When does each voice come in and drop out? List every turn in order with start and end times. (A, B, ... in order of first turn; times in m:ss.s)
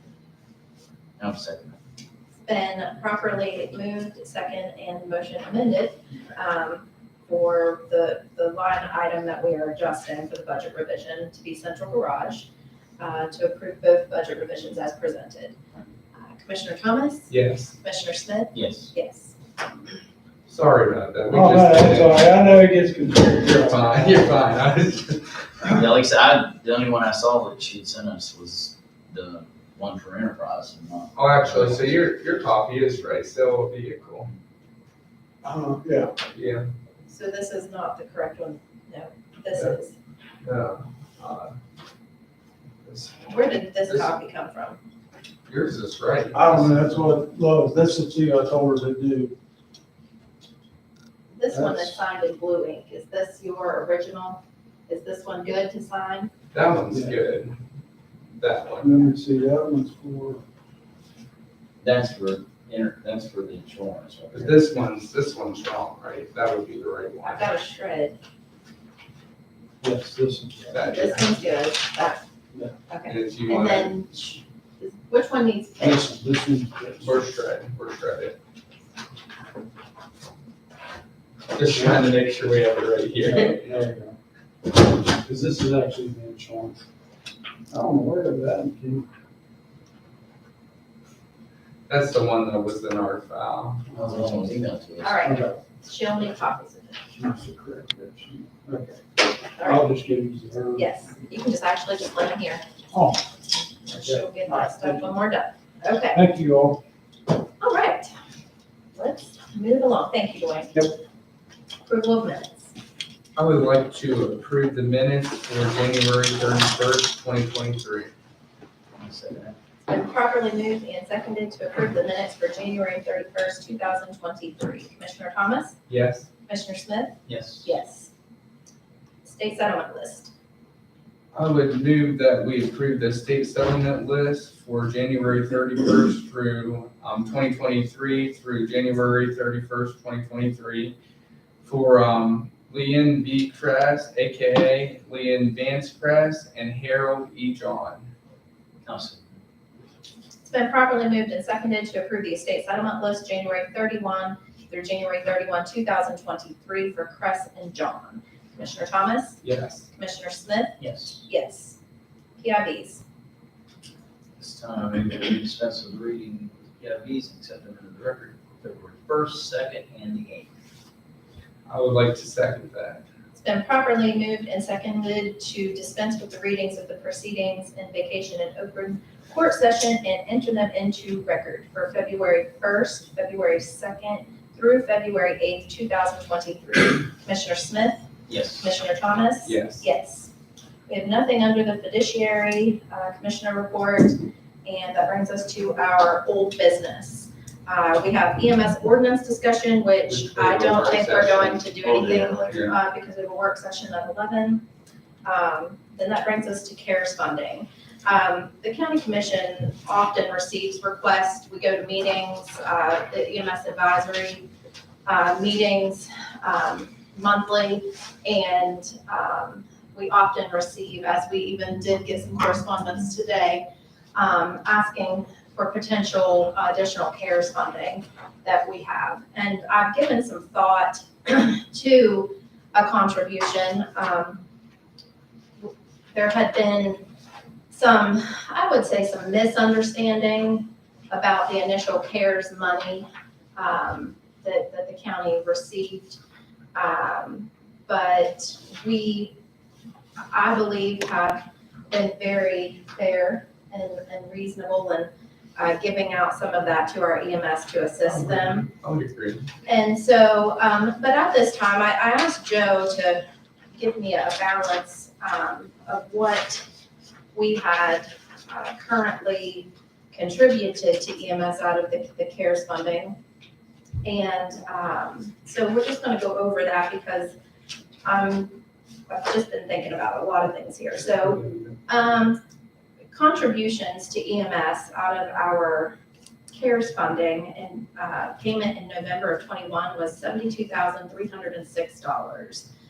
0:01.2-0:01.8 A
0:02.5-0:12.5 B
0:13.0-0:15.6 B
0:16.2-0:19.4 B
0:17.3-0:17.8 C
0:18.5-0:18.9 A
0:20.5-0:22.3 C
0:21.3-0:24.3 D
0:23.4-0:25.4 C
0:25.6-0:32.0 A
0:31.2-0:34.3 C
0:35.4-0:36.1 D
0:36.3-0:36.7 C
0:37.1-0:40.0 B
0:40.4-0:41.5 C
0:42.8-0:43.3 C
0:43.3-0:44.8 B
0:43.9-0:44.1 C
0:45.5-0:46.9 C
0:46.3-0:49.4 D
0:51.3-0:56.3 B
0:51.5-0:52.0 D
0:56.5-0:57.6 C
0:56.9-0:57.2 D
0:58.4-0:59.0 C
0:58.8-1:00.4 D
1:01.8-1:04.6 A
1:04.3-1:07.5 C
1:07.2-1:08.2 B
1:09.8-1:10.8 D
1:10.7-1:11.3 C
1:10.8-1:12.2 B
1:12.9-1:16.1 B
1:13.1-1:13.9 C
1:15.8-1:17.2 D
1:17.0-1:18.4 C
1:21.5-1:23.5 C
1:21.6-1:22.0 D
1:23.3-1:24.2 D
1:25.0-1:26.8 D
1:27.7-1:29.1 D
1:31.9-1:33.9 C
1:34.0-1:34.5 D
1:34.0-1:35.2 A
1:35.0-1:37.0 B
1:35.2-1:35.6 D
1:37.2-1:39.0 D
1:39.6-1:39.9 B
1:39.6-1:40.9 D
1:40.8-1:42.6 B
1:42.9-1:43.2 D
1:43.9-1:46.2 B
1:43.9-1:45.1 D
1:46.1-1:46.8 D
1:47.6-1:48.1 B
1:49.0-1:50.7 B
1:51.9-1:52.7 B
1:53.4-1:58.1 C
1:59.0-1:59.6 A
1:59.9-2:05.8 B
2:05.9-2:06.3 C
2:06.5-2:08.1 B
2:07.3-2:07.7 A
2:09.2-2:10.3 B
2:11.3-2:21.0 C
2:21.6-2:28.1 C
2:28.8-2:29.3 A
2:30.5-2:39.4 B
2:39.4-2:39.9 C
2:39.9-2:41.8 B
2:40.8-2:41.2 A
2:42.4-2:43.0 B
2:44.4-2:50.5 A
2:51.7-2:53.0 C
2:53.3-3:10.3 B
3:08.3-3:08.7 A
3:09.4-3:09.8 C
3:10.9-3:24.6 B
3:20.1-3:21.6 C
3:21.8-3:22.6 A
3:22.5-3:22.8 C
3:25.2-3:34.5 B
3:35.0-3:54.4 B
3:55.6-3:57.1 B
3:57.7-4:06.2 B
4:06.7-4:09.4 B
4:10.3-4:18.7 B
4:18.0-4:19.5 C
4:19.6-4:23.2 B
4:23.8-4:26.6 B
4:27.3-4:33.2 B
4:34.0-4:37.4 B
4:38.0-4:38.6 B
4:39.1-4:42.4 B
4:41.2-4:41.7 C
4:43.1-4:46.0 B
4:46.5-4:52.7 B